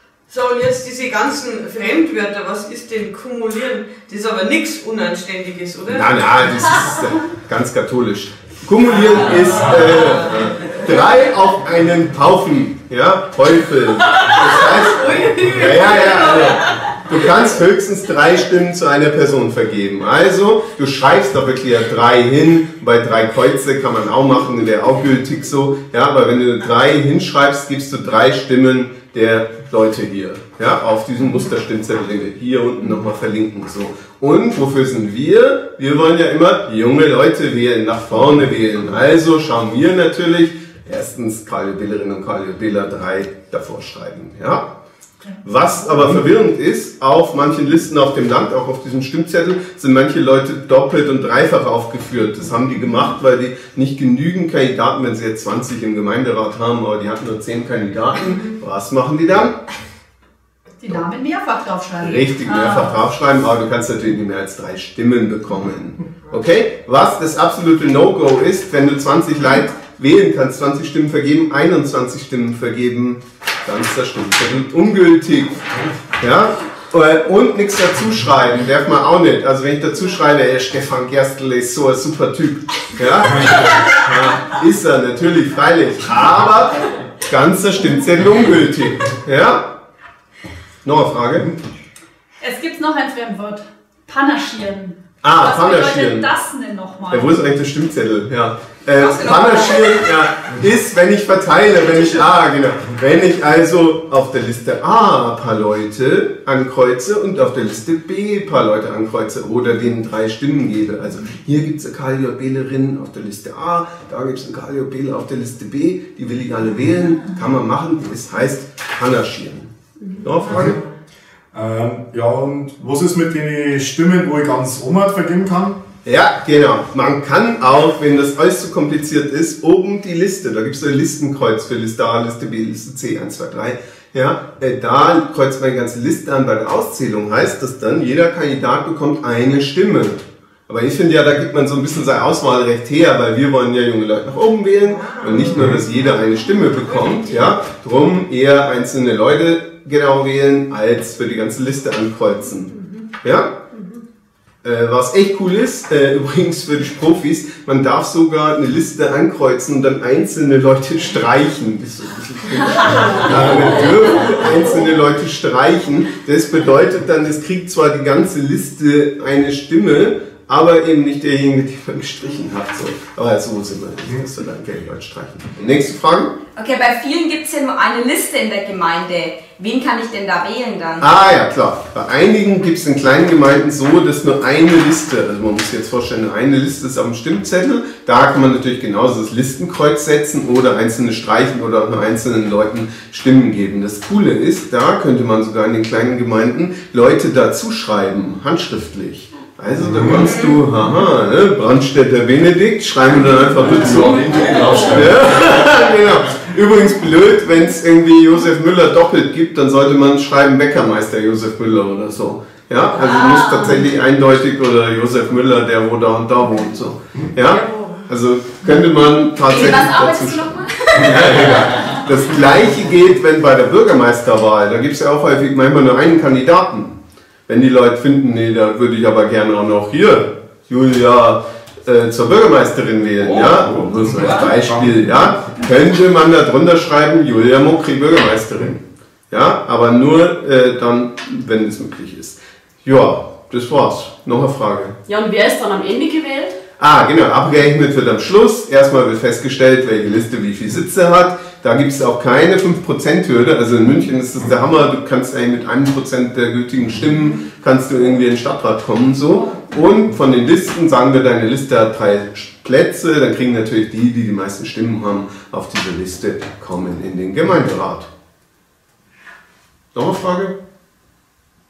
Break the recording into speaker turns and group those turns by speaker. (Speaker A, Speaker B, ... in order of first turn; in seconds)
Speaker A: 0.3-6.2, 8.8-10.9, 14.1-17.3, 144.9-147.5, 204.5-205.0
Speaker B: 5.9-44.7, 45.4-59.6, 62.0-75.6, 76.2-89.7, 90.8-91.5, 95.2-96.3, 97.1-120.8, 126.0-153.5, 154.6-176.3, 181.0-227.0, 227.5-245.0, 246.8-268.1, 269.9-270.6
Speaker C: 60.8-63.0, 92.4-97.4
Speaker D: 99.0-99.9, 176.6-181.1, 219.4-221.8
Speaker E: 121.5-125.8, 163.3-163.8, 199.8-200.3, 203.3-205.6, 233.2-235.1
Speaker F: 153.7-154.0, 213.0-213.6, 217.7-217.9, 245.1-246.6